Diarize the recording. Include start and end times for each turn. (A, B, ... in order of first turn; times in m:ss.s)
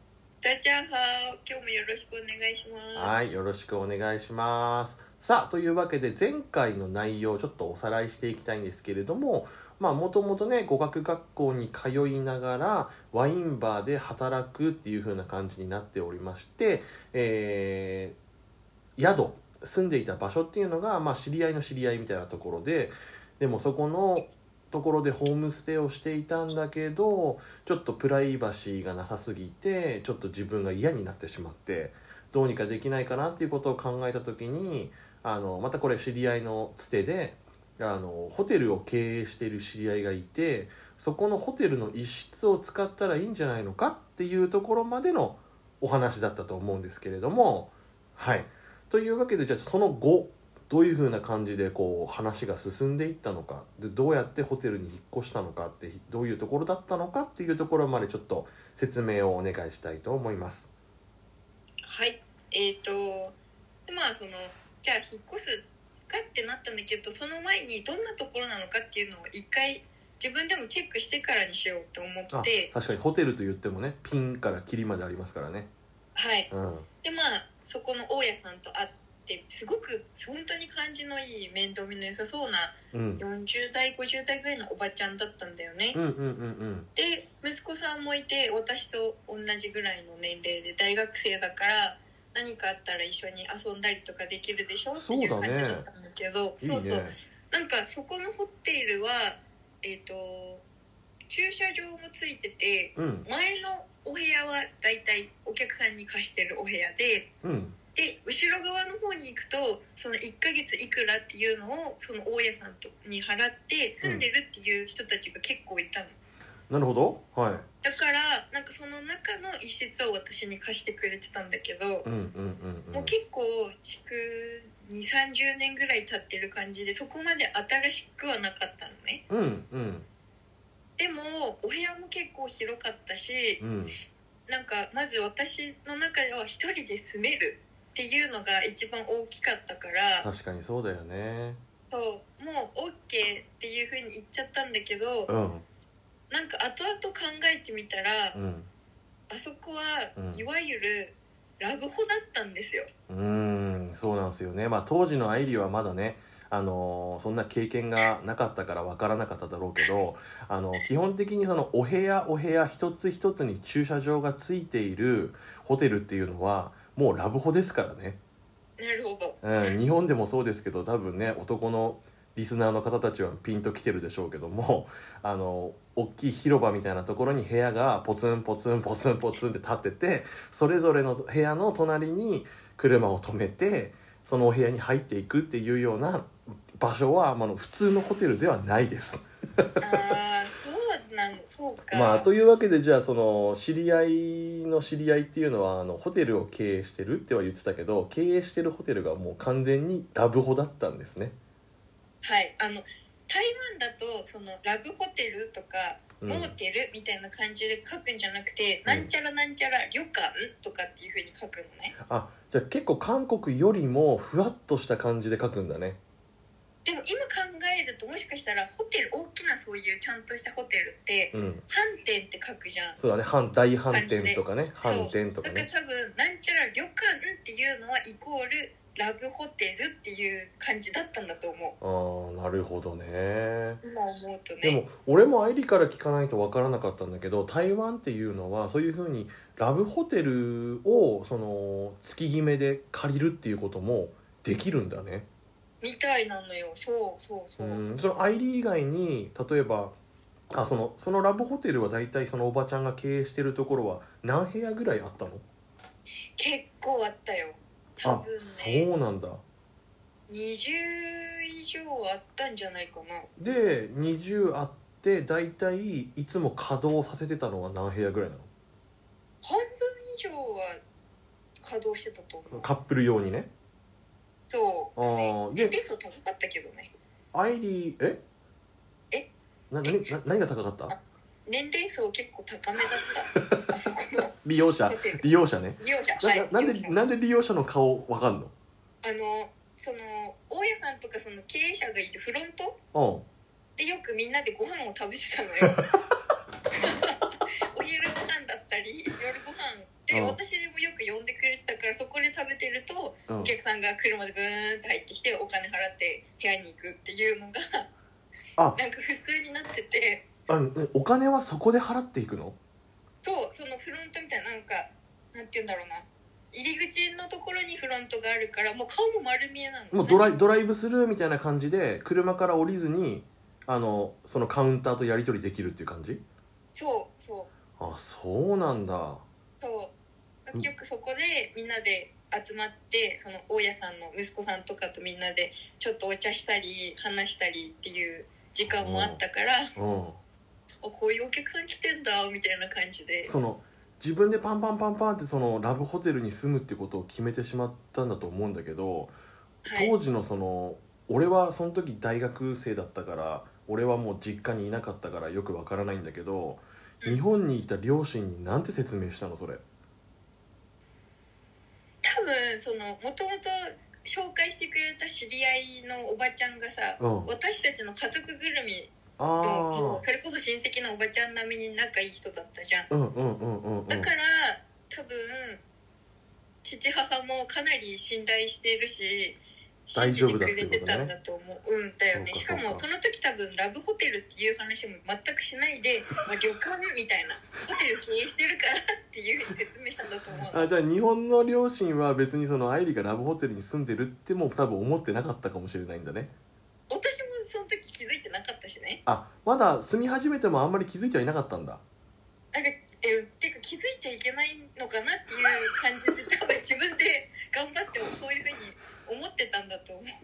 0:00.4-0:03.1 A
0:02.9-0:18.2 B
0:19.0-1:00.7 B
1:01.8-1:12.7 A
1:12.3-1:15.7 B
1:16.2-1:16.5 A
1:16.5-1:16.9 B
1:17.0-1:26.0 A
1:22.9-1:23.2 B
1:25.9-1:26.9 B
1:26.9-1:40.6 A
1:34.9-1:35.8 B
1:36.6-1:37.2 B
1:41.3-1:47.3 A
1:43.0-1:43.2 B
1:47.4-1:47.8 B
1:47.9-1:56.2 A
1:56.7-1:57.6 B
1:57.8-2:02.1 A
2:02.0-2:03.1 B
2:02.9-2:09.2 A
2:09.3-2:10.1 B
2:11.0-2:13.6 A
2:13.6-2:14.0 B
2:14.5-2:20.3 A
2:20.2-2:21.6 B
2:21.9-2:25.3 A
2:25.3-2:25.6 B
2:26.3-2:28.4 A
2:28.3-2:28.7 B
2:29.3-2:32.9 A
2:30.2-2:30.4 B
2:33.1-2:48.2 B
2:48.8-2:49.4 A
2:49.4-3:09.2 B
3:09.8-3:12.3 A
3:11.9-3:21.4 B
3:22.2-3:31.9 A
3:26.2-3:26.5 B
3:28.8-3:29.1 B
3:32.0-3:36.0 B
3:36.8-3:43.0 A
3:41.3-3:41.6 B
3:43.0-3:45.7 B
3:43.9-3:51.7 A
3:51.8-3:53.8 B
3:53.8-3:54.8 A
3:54.6-4:05.3 B
4:05.8-4:07.8 A
4:07.6-4:10.0 B
4:10.5-4:15.4 B
4:16.4-4:18.9 A
4:18.0-4:19.4 B
4:20.3-4:23.3 A
4:23.4-4:28.5 B
4:29.4-4:30.8 A
4:31.6-4:32.7 A
4:32.5-4:33.5 B
4:34.5-4:36.9 A
4:35.0-4:35.8 B
4:37.3-4:38.2 B
4:39.7-4:41.0 B
4:39.8-4:40.1 A
4:40.9-4:44.3 A
4:43.3-4:43.6 B
4:44.4-4:48.5 B
4:44.8-4:45.2 A
4:45.8-4:47.0 A
4:49.0-4:52.8 A
4:52.9-4:53.2 B
4:53.8-4:55.8 A
4:56.7-5:07.9 A
5:00.1-5:00.4 B
5:03.3-5:03.5 B
5:08.7-5:10.2 A
5:10.5-5:12.6 B
5:13.2-5:20.4 A
5:19.9-5:26.2 B
5:26.7-5:27.5 A
5:27.8-5:29.2 B
5:29.6-5:29.9 A
5:30.4-5:39.7 A
5:38.6-5:39.2 B
5:39.8-5:40.2 B
5:40.8-5:43.3 A
5:43.2-5:49.2 B
5:49.6-5:49.9 A
5:49.7-5:59.6 B
6:02.0-6:12.9 A
6:07.0-6:07.3 B
6:09.2-6:10.0 B
6:12.9-6:14.1 B
6:13.9-6:15.6 A
6:16.6-6:19.4 A
6:19.9-6:30.7 A
6:19.9-6:21.1 B
6:22.1-6:22.8 B
6:30.5-6:36.3 B
6:36.9-6:39.0 A
6:39.0-6:41.8 B
6:42.5-6:50.1 A